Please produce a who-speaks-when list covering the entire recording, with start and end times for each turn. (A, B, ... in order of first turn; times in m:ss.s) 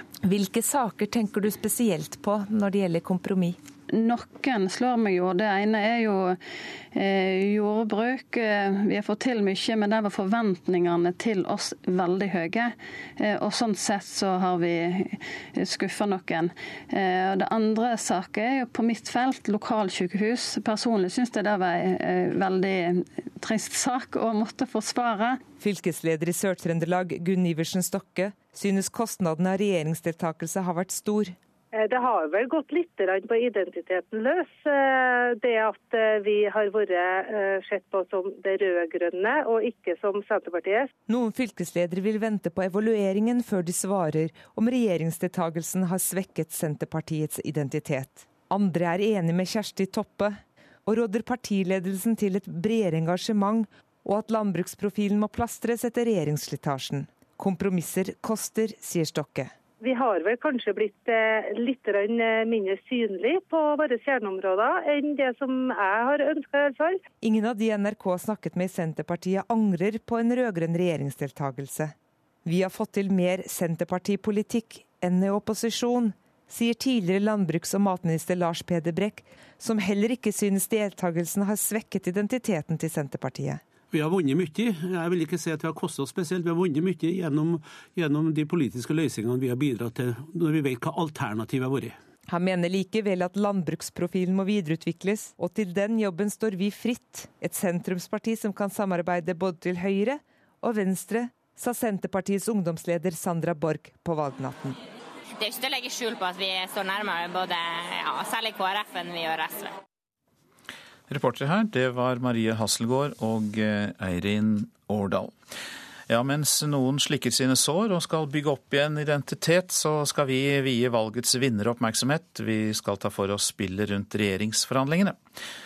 0:00.3-0:03.6 A
0:03.9-0:06.4 B
0:07.0-0:25.4 B
0:25.6-0:31.4 A
0:31.8-0:40.9 C
0:41.1-0:59.5 A
0:59.8-1:07.0 C
1:07.2-1:11.9 A
1:12.4-1:23.6 A
1:23.9-1:32.0 D
1:32.3-1:44.8 A
1:45.4-1:49.7 E
1:51.1-1:55.3 F
1:56.1-2:05.2 F